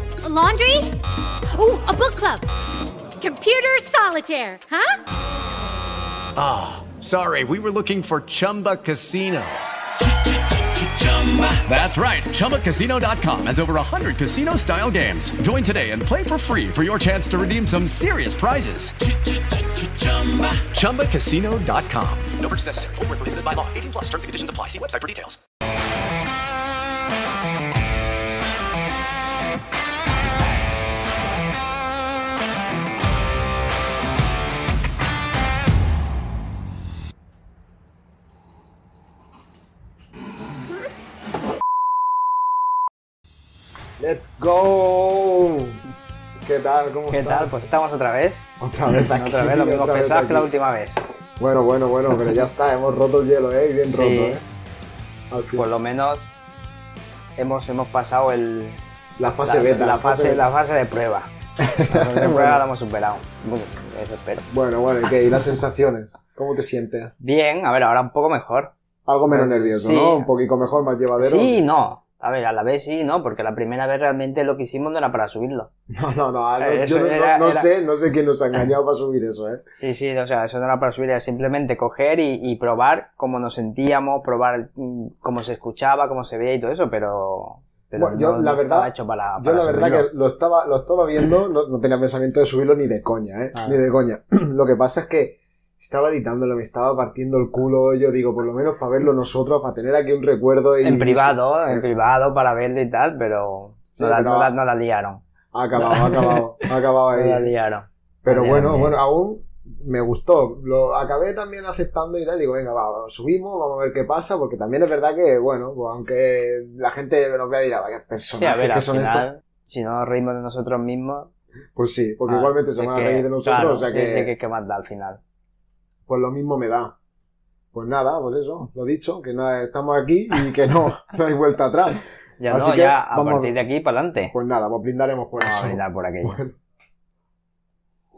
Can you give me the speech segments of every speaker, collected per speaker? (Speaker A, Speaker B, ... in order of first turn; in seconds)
Speaker A: 0.2-0.9, 1.5-2.5, 3.2-5.0
Speaker B: 6.3-9.6, 10.7-25.4
Speaker C: 44.0-45.8, 46.4-47.5, 48.6-50.5, 51.4-54.4, 55.3-55.6, 59.2-60.4, 61.6-62.6, 64.5-67.1, 69.0-71.6, 75.9-79.6, 87.9-101.8, 103.9-104.5, 105.5-107.5, 108.2-119.3, 121.8-124.3, 126.1-126.9, 127.7-133.5, 134.3-136.6
Speaker D: 47.1-51.0, 53.8-54.4, 55.5-56.3, 57.4-58.8, 59.4-61.3, 61.9-64.5, 67.2-68.7, 69.3-70.3, 71.2-75.7, 76.6-77.7, 79.7-90.1, 93.5-93.8, 100.8-105.2, 105.8-109.0, 118.2-121.3, 122.3-125.2, 132.4-134.3, 135.4-136.4